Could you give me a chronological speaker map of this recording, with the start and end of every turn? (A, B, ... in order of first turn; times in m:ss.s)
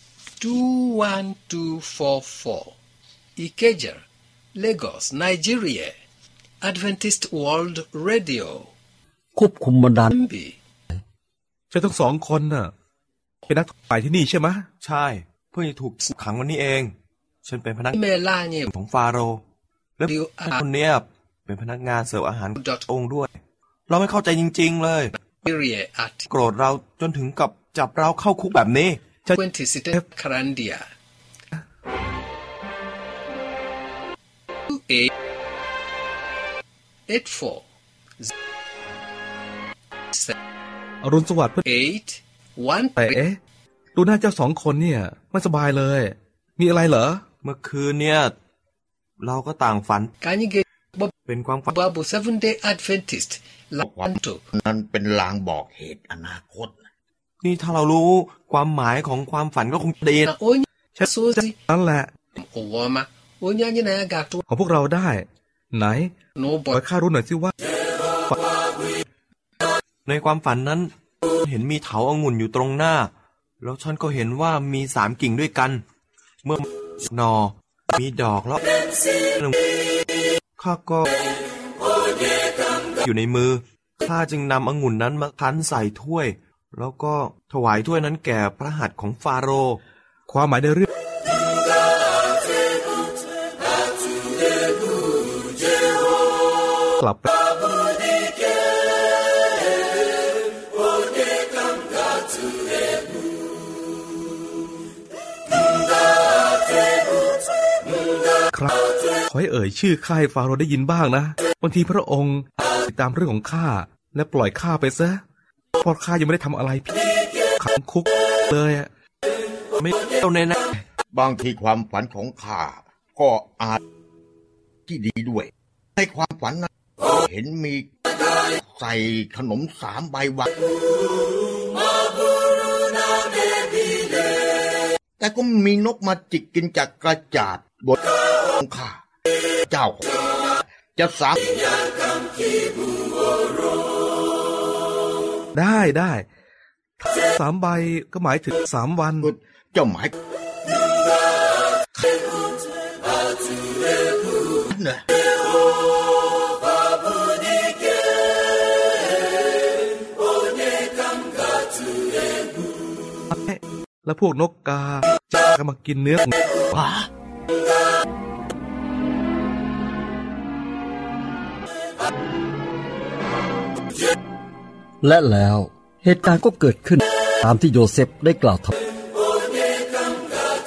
0:00.4-0:02.8 A
0:03.4-0:04.0 A
0:04.6-0:05.9 A
0:06.6-0:08.7 A
0:09.4-0:10.1 B
0:10.1-0:10.5 A
0:11.7-0:12.7 C
0:13.5-0:14.7 C
0:14.8-0:16.9 D
0:17.4-0:18.0 D
0:17.9-0:18.7 A
0:18.7-0:19.4 D
0:20.0-0:23.3 D
0:20.1-0:20.6 A
0:22.6-0:22.9 A
0:23.9-0:25.1 D
0:25.3-0:26.2 A
0:26.3-0:29.0 D
0:29.3-0:30.8 A
0:34.7-0:35.1 A
0:37.1-0:37.6 A
0:41.0-0:41.6 C
0:41.6-0:43.2 A
0:43.0-0:43.4 C
0:44.0-0:47.2 C
0:47.4-0:48.3 D
0:49.2-0:50.1 D
0:50.2-0:51.1 A
0:51.3-0:51.8 D
0:51.7-0:54.5 A
0:53.8-0:56.8 E
0:57.4-1:00.4 D
1:00.2-1:01.6 A
1:01.0-1:02.1 C
1:02.4-1:04.4 A
1:04.5-1:06.1 C
1:06.4-1:06.8 A
1:06.7-1:07.6 C
1:10.0-1:15.8 D
1:16.4-1:18.6 D
1:20.6-1:21.1 D
1:23.0-1:29.8 D
1:30.3-1:30.9 C
1:37.0-1:37.3 C
1:49.3-1:55.2 C
1:55.8-1:57.0 C
1:57.6-1:58.9 C
1:59.8-2:00.6 D
2:01.1-2:03.8 E
2:04.9-2:07.9 E
2:08.6-2:10.5 E
2:15.2-2:18.0 E
2:18.6-2:19.0 E
2:19.7-2:20.1 E
2:21.0-2:21.5 E
2:25.5-2:26.3 C
2:27.0-2:29.3 C
2:29.2-2:30.1 E
2:34.7-2:35.0 E
2:43.3-2:46.3 C
2:46.7-2:47.0 E
2:55.0-2:58.8 B